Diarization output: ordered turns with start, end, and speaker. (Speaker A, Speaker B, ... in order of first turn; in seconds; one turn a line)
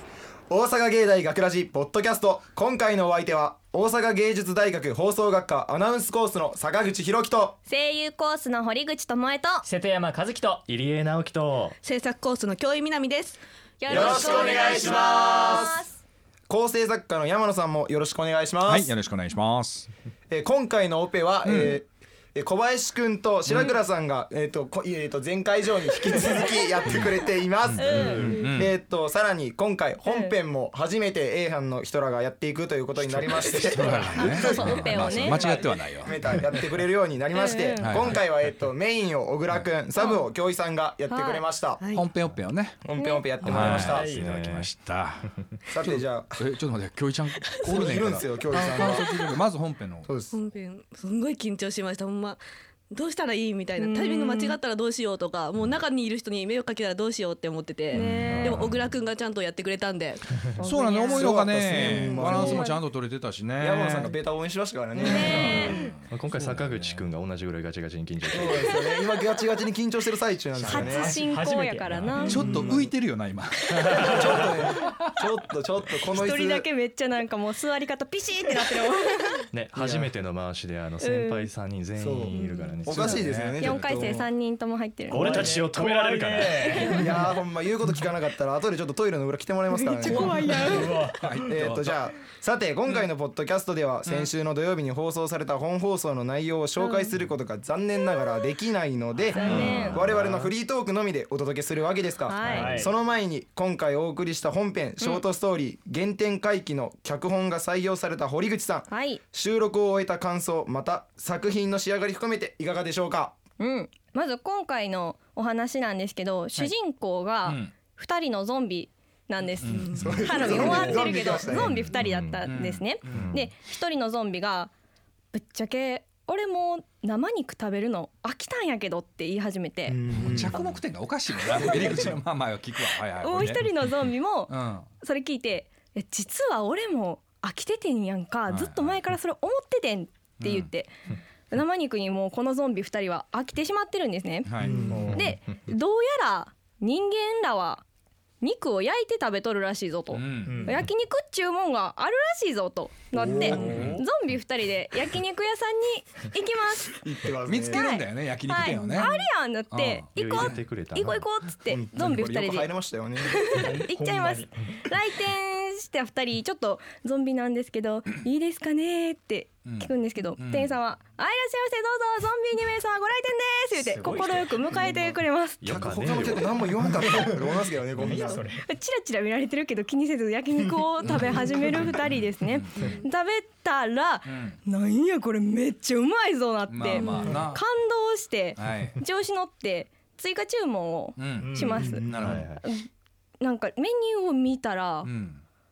Speaker A: 0.5-7.6
Speaker B: 7.7-9.7
Speaker C: 9.6-10.7
Speaker D: 10.7-11.8
Speaker E: 11.8-13.4
Speaker B: 13.8-16.0
Speaker A: 13.9-15.9
Speaker C: 13.9-15.2
Speaker A: 16.5-18.9
Speaker F: 18.6-19.9
Speaker A: 20.3-41.8
Speaker F: 23.5-23.8
Speaker B: 26.2-26.7
Speaker D: 27.7-28.6
Speaker F: 27.8-28.7
Speaker B: 27.8-28.4
Speaker B: 30.1-30.4
Speaker D: 33.0-33.6
Speaker F: 33.5-36.4
Speaker B: 34.2-35.6
Speaker B: 37.3-38.2
Speaker F: 37.8-38.3
Speaker B: 40.0-40.2
Speaker B: 41.1-41.4
Speaker E: 41.8-42.1
Speaker F: 41.9-42.8
Speaker A: 42.8-44.1
Speaker B: 43.0-43.4
Speaker D: 43.5-44.7
Speaker F: 43.5-50.1
Speaker C: 43.6-44.4
Speaker A: 45.7-46.4
Speaker E: 47.5-48.0
Speaker A: 47.6-49.1
Speaker E: 48.8-49.3
Speaker A: 50.1-50.4
Speaker E: 50.3-62.8
Speaker B: 53.8-54.6
Speaker B: 57.9-58.7
Speaker D: 57.9-58.9
Speaker F: 60.6-64.1
Speaker A: 61.0-62.7
Speaker B: 62.3-62.6
Speaker A: 63.6-65.7
Speaker B: 65.1-65.9
Speaker D: 65.2-68.8
Speaker F: 65.3-67.0
Speaker A: 68.3-71.2
Speaker C: 70.5-72.3
Speaker B: 70.6-72.4
Speaker D: 71.9-72.4
Speaker F: 72.2-75.2
Speaker A: 72.3-72.9
Speaker D: 73.8-74.5
Speaker A: 74.0-76.7
Speaker B: 76.1-79.5
Speaker D: 79.5-83.3
Speaker A: 79.8-80.1
Speaker B: 81.0-81.5
Speaker A: 82.0-84.3
Speaker E: 82.4-82.9
Speaker B: 82.4-82.8
Speaker F: 83.0-84.1
Speaker B: 83.6-85.5
Speaker D: 85.1-87.3
Speaker C: 85.1-87.0
Speaker B: 86.6-87.2
Speaker A: 87.0-90.8
Speaker B: 89.7-91.1
Speaker C: 90.0-91.7
Speaker F: 90.6-92.0
Speaker A: 91.4-113.3
Speaker F: 94.1-94.3
Speaker B: 96.8-97.2
Speaker B: 98.1-98.4
Speaker F: 99.3-99.9
Speaker B: 99.3-100.1
Speaker D: 99.4-100.5
Speaker C: 99.6-99.9
Speaker B: 102.3-102.9
Speaker C: 102.5-102.9
Speaker D: 102.5-102.8
Speaker B: 108.9-109.2
Speaker B: 113.6-124.7
Speaker F: 117.5-117.7
Speaker F: 119.6-121.9
Speaker E: 119.6-120.2
Speaker A: 120.0-121.8
Speaker D: 121.5-122.5
Speaker F: 122.4-123.4
Speaker D: 123.1-123.4
Speaker B: 125.3-130.1
Speaker A: 129.9-130.6
Speaker F: 130.2-133.7
Speaker B: 133.2-140.9
Speaker F: 134.5-134.9
Speaker F: 138.5-138.8
Speaker F: 140.4-140.7
Speaker B: 141.5-147.8
Speaker F: 144.5-145.0
Speaker A: 144.6-145.1
Speaker C: 144.9-145.3
Speaker D: 144.9-145.4
Speaker B: 148.4-157.0
Speaker F: 150.1-150.8
Speaker C: 150.5-150.8
Speaker A: 153.1-153.9
Speaker C: 153.5-154.0
Speaker F: 153.6-154.1
Speaker A: 157.0-157.9
Speaker F: 157.5-160.6
Speaker B: 157.7-175.6
Speaker D: 160.2-161.3
Speaker A: 161.7-163.5
Speaker C: 163.5-164.5
Speaker F: 169.7-170.7
Speaker C: 173.8-175.1
Speaker D: 175.6-177.0
Speaker A: 175.7-178.4
Speaker C: 177.1-177.3
Speaker C: 178.0-178.6
Speaker B: 178.6-192.1
Speaker F: 181.1-182.7
Speaker E: 182.8-183.1
Speaker F: 184.3-184.6
Speaker F: 186.7-187.6
Speaker E: 187.0-187.2
Speaker F: 188.6-189.0
Speaker F: 191.2-192.5
Speaker C: 191.4-191.9
Speaker A: 191.7-192.4
Speaker D: 192.2-192.6
Speaker B: 192.6-192.9
Speaker B: 193.4-195.1
Speaker F: 195.0-195.4